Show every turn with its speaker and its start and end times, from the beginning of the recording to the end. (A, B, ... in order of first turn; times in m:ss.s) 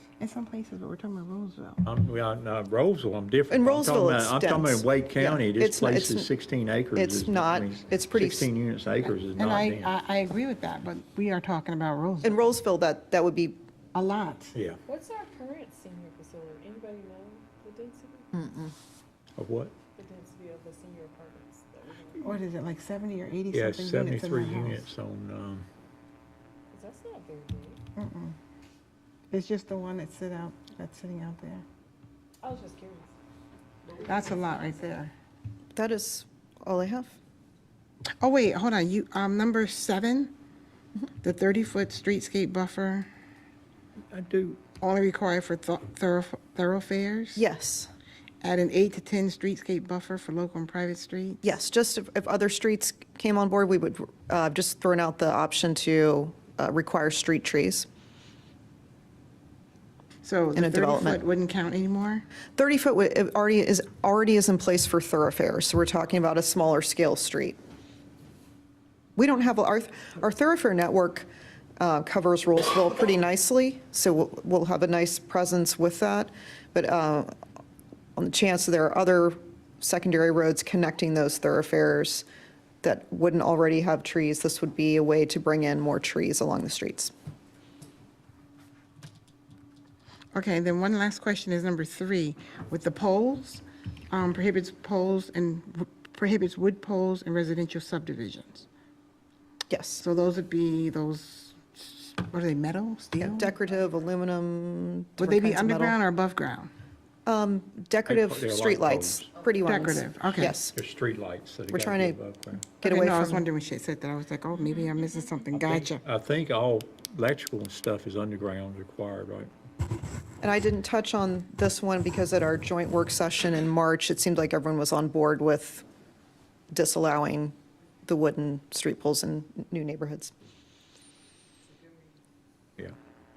0:00.2-0:01.8 A
0:01.8-0:09.9 B
0:03.5-0:06.3 C
0:07.0-0:08.5 C
0:09.4-0:12.4 A
0:12.2-0:13.6 C
0:13.9-0:14.5 A
0:14.5-0:14.8 B
0:14.8-0:18.3 D
0:18.3-0:18.7 C
0:19.4-0:19.7 B
0:20.0-0:22.4 D
0:22.2-0:24.8 A
0:23.5-0:25.7 B
0:26.7-0:27.8 D
0:28.0-0:28.4 A
0:29.3-0:31.6 A
0:32.4-0:33.1 D
0:33.8-0:34.8 D
0:34.0-0:35.1 A
0:35.8-0:37.2 C
0:38.2-0:40.3 A
0:41.2-0:43.1 A
0:44.1-0:44.6 B
0:44.8-0:47.4 A
0:47.4-0:47.9 C
0:48.4-0:51.4 A
0:51.4-0:57.9 C
1:00.2-1:02.2 A
1:00.6-1:01.2 C
1:02.6-1:07.6 C
1:09.2-1:11.3 C
1:11.8-1:17.3 C
1:18.2-1:22.2 C
1:22.8-1:27.1 C
1:30.3-1:38.6 A
1:39.7-1:40.0 C
1:40.0-1:43.5 A
1:43.2-1:46.0 C
1:45.2-1:46.7 A
1:47.2-1:50.7 C
1:48.1-1:49.4 B
1:49.6-1:50.6 A
1:50.7-1:52.7 B
1:51.7-1:52.2 C
1:52.7-1:53.4 C
1:52.8-1:56.0 A
1:55.5-1:59.5 B
2:00.4-2:05.8 C
2:06.7-2:10.3 C